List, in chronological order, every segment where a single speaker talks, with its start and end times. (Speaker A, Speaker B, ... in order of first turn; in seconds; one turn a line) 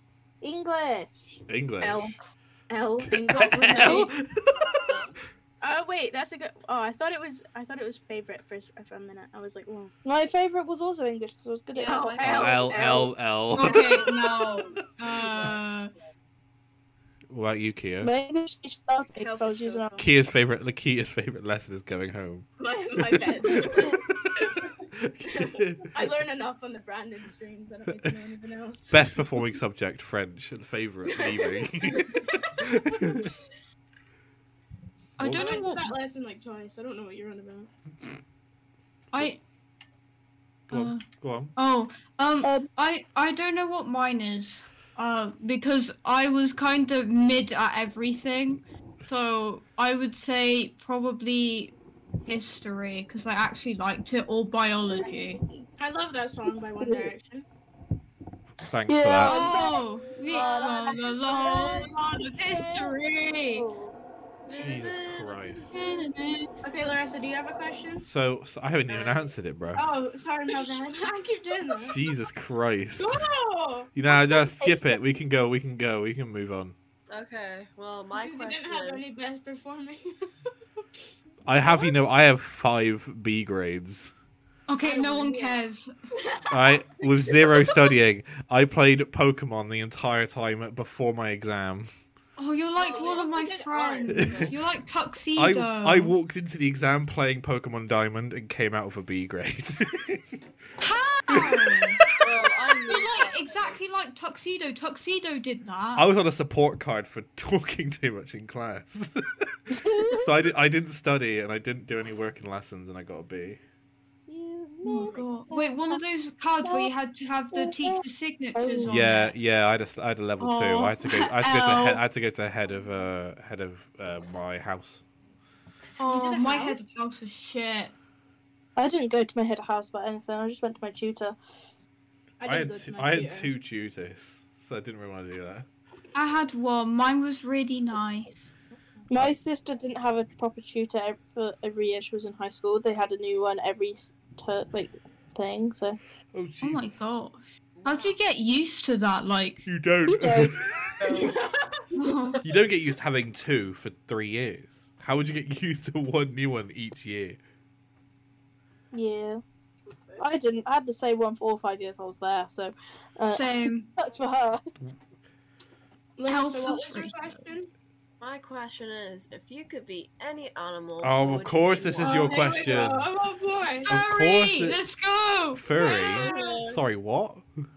Speaker A: 0.4-1.4
Speaker B: 1.5-2.1
Speaker C: 1.8-4.1
Speaker B: 3.0-5.0
Speaker A: 3.8-4.1
Speaker D: 4.9-5.1
Speaker C: 5.6-9.9
Speaker A: 10.1-12.1
Speaker D: 11.7-15.6
Speaker C: 11.9-13.1
Speaker B: 12.2-14.0
Speaker E: 13.5-15.9
Speaker B: 17.3-18.1
Speaker A: 18.0-20.1
Speaker D: 19.2-20.1
Speaker B: 20.0-22.5
Speaker C: 22.6-24.7
Speaker B: 23.0-23.9
Speaker B: 25.0-25.9
Speaker C: 25.3-29.0
Speaker B: 27.9-28.1
Speaker B: 28.9-33.3
Speaker C: 31.1-33.3
Speaker E: 35.2-36.0
Speaker B: 35.2-35.5
Speaker C: 35.3-37.7
Speaker E: 39.1-39.4
Speaker E: 40.7-55.4
Speaker B: 40.7-41.5
Speaker A: 42.4-42.7
Speaker A: 54.9-55.7
Speaker C: 55.8-57.5
Speaker A: 56.5-57.1
Speaker B: 58.6-59.5
Speaker A: 58.9-63.0
Speaker E: 59.2-63.7
Speaker D: 59.5-62.0
Speaker C: 61.6-62.3
Speaker A: 63.5-64.0
Speaker D: 64.5-66.0
Speaker B: 64.5-65.7
Speaker E: 65.7-66.5
Speaker C: 66.6-68.1
Speaker B: 68.0-70.0
Speaker D: 68.9-69.3
Speaker C: 69.8-72.0
Speaker B: 71.8-73.3
Speaker C: 73.0-73.9
Speaker B: 74.0-76.8
Speaker A: 74.1-75.0
Speaker D: 77.1-79.1
Speaker C: 78.1-80.1
Speaker B: 81.5-84.2
Speaker C: 81.6-82.1
Speaker E: 84.7-85.9
Speaker C: 84.8-85.6
Speaker C: 86.1-87.7
Speaker B: 86.5-91.9
Speaker E: 92.4-96.1
Speaker C: 92.8-94.5
Speaker D: 92.8-93.3
Speaker B: 94.1-94.5
Speaker D: 94.1-94.5
Speaker B: 95.3-100.4
Speaker E: 100.8-102.2
Speaker B: 101.3-101.6
Speaker D: 102.2-103.8
Speaker E: 102.8-106.1
Speaker B: 106.0-109.5
Speaker A: 109.7-110.5
Speaker B: 110.1-113.6
Speaker A: 114.3-116.0
Speaker E: 114.8-119.3
Speaker A: 116.6-116.9
Speaker A: 117.5-118.0
Speaker A: 118.5-118.9
Speaker B: 118.9-125.0
Speaker E: 120.4-122.0
Speaker E: 126.0-127.9
Speaker C: 126.0-126.8
Speaker A: 128.8-131.4
Speaker C: 132.4-133.5
Speaker B: 132.5-135.7
Speaker E: 136.1-138.5
Speaker A: 139.1-146.0
Speaker B: 146.3-146.9
Speaker E: 146.6-149.7
Speaker D: 147.8-148.2
Speaker B: 149.7-150.7
Speaker A: 150.1-150.6
Speaker D: 151.0-151.3
Speaker C: 151.0-152.2
Speaker E: 151.9-152.4
Speaker B: 152.4-157.4
Speaker A: 158.9-159.4
Speaker D: 159.9-160.2
Speaker A: 160.2-164.6
Speaker E: 163.3-163.9
Speaker C: 166.2-167.7
Speaker E: 166.2-167.3
Speaker D: 168.2-172.9
Speaker B: 171.0-173.1
Speaker C: 172.0-173.9
Speaker E: 173.8-175.7
Speaker B: 173.9-174.8
Speaker B: 175.6-177.4
Speaker C: 175.8-176.6
Speaker D: 175.8-176.8